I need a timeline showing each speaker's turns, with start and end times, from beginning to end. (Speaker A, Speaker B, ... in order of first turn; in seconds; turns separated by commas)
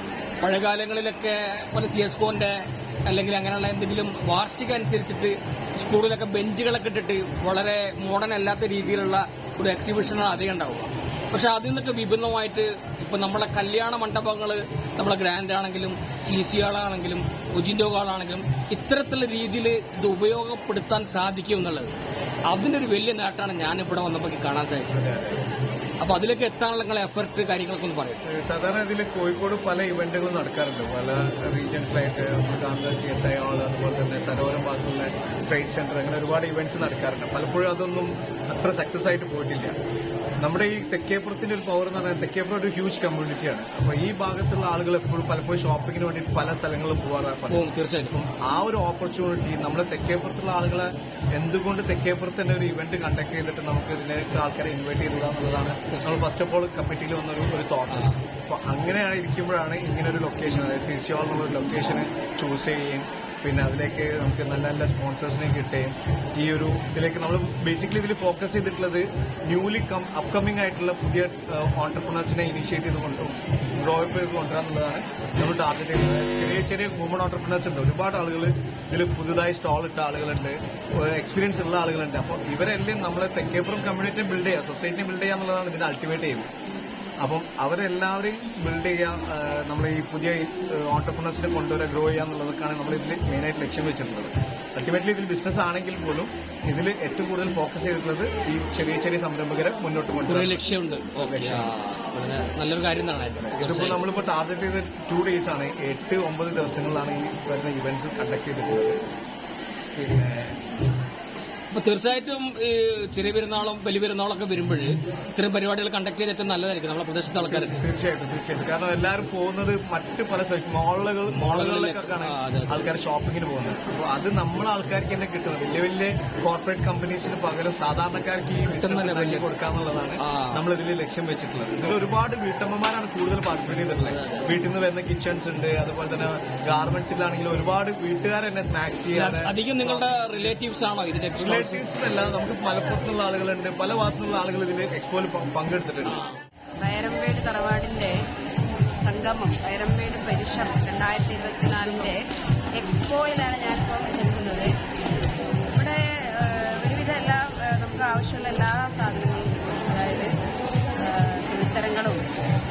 Speaker A: 0.4-21.9, Speaker A: 22.5-25.0, Speaker B: 24.9-25.4, Speaker A: 26.0-28.2, Speaker B: 28.2-39.8, Speaker B: 40.4-86.5, Speaker A: 47.5-48.1, Speaker A: 55.9-56.2, Speaker A: 57.9-58.2, Speaker B: 87.2-100.6, Speaker A: 100.3-104.1, Speaker B: 101.2-101.7, Speaker B: 103.6-109.0, Speaker B: 110.0-110.6, Speaker A: 111.7-117.8, Speaker B: 117.5-140.1, Speaker A: 121.3-122.9, Speaker A: 128.7-129.5, Speaker A: 130.2-130.6, Speaker A: 134.0-134.6, Speaker A: 139.1-141.9, Speaker B: 141.4-146.2, Speaker C: 146.8-148.2, Speaker C: 149.0-152.2, Speaker C: 152.8-154.7, Speaker C: 155.7-160.3, Speaker C: 161.0-162.2